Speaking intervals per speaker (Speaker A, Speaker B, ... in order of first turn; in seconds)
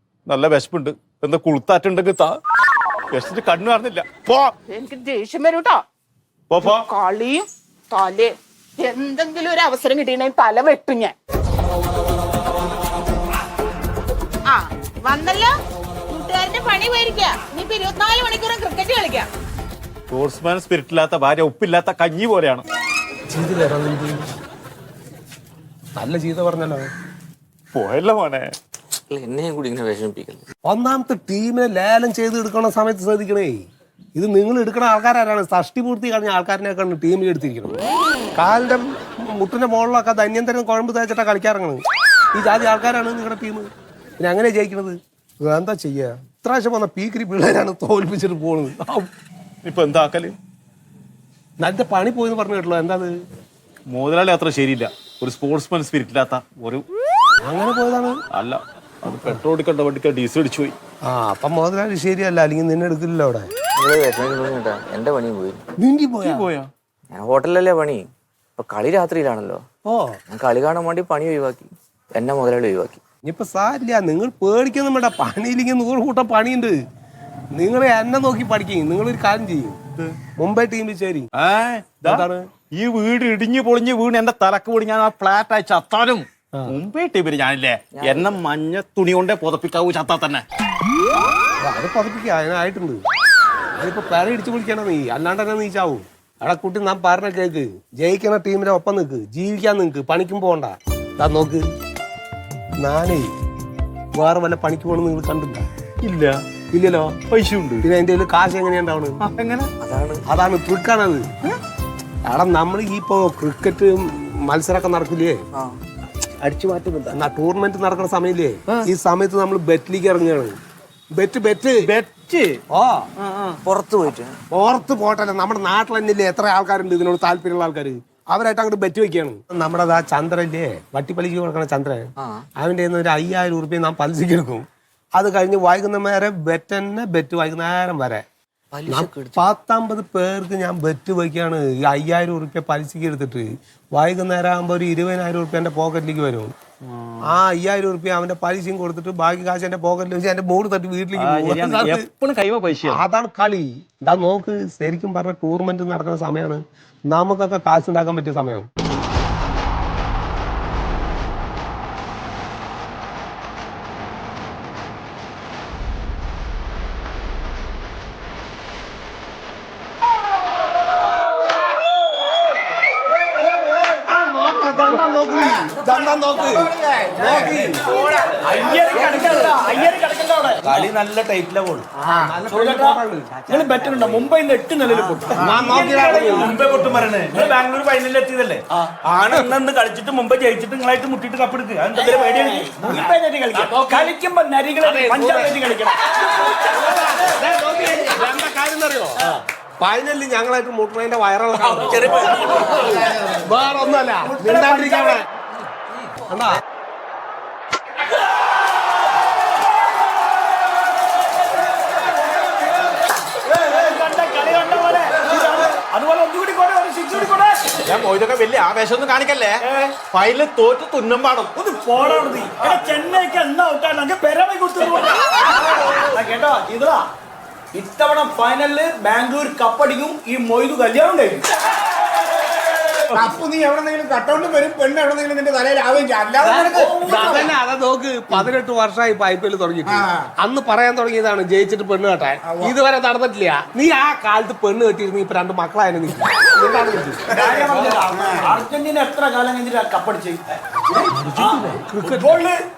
Speaker A: 0.3-2.4, 3.1-4.5, 6.5-6.8, 20.1-22.6, 27.7-28.5, 49.6-50.3, 53.9-56.8, 58.3-60.7, 66.2-66.7, 81.3-82.2, 82.8-90.4, 106.0-106.4, 107.3-107.9, 109.2-109.7, 121.8-122.6, 123.2-123.6, 151.2-153.0, 217.9-221.5
Speaker B: 4.7-5.8, 6.6-11.1, 14.5-15.5, 16.1-19.3
Speaker C: 23.3-24.2, 26.0-26.9, 30.7-33.6, 34.2-37.8, 38.4-41.8, 42.3-43.7, 44.2-49.1, 51.6-53.1, 57.4-58.2, 61.1-63.5, 65.8-66.5, 69.8-70.2, 73.2-76.8, 77.5-79.8, 80.4-81.3, 82.0-82.4, 91.6-93.0, 93.8-101.7, 102.8-103.3, 104.2-105.7, 106.7-107.2, 107.8-109.2, 110.3-111.2, 112.2-115.4, 117.1-120.6, 121.2-121.9, 122.7-123.1, 124.5-134.6, 135.2-138.2, 138.9-146.5, 147.2-152.1, 152.8-158.7, 174.1-177.9, 182.0-183.6, 185.3-186.8, 192.2-194.1, 194.8-195.6, 196.5-205.2, 206.3-206.6, 237.0-247.9, 251.0-252.4
Speaker D: 29.1-30.4, 63.8-65.6, 67.1-69.6, 70.3-73.0, 87.9-88.3, 109.8-110.2, 116.5-117.1, 123.6-124.4, 138.7-139.4
Speaker E: 175.3-179.8, 233.1-237.3, 242.4-242.8, 247.3-248.7
Speaker F: 178.4-181.9, 182.5-196.5, 201.6-203.0, 204.2-205.2, 213.4-217.7, 221.6-227.1, 227.7-231.4, 236.4-237.4, 247.3-252.6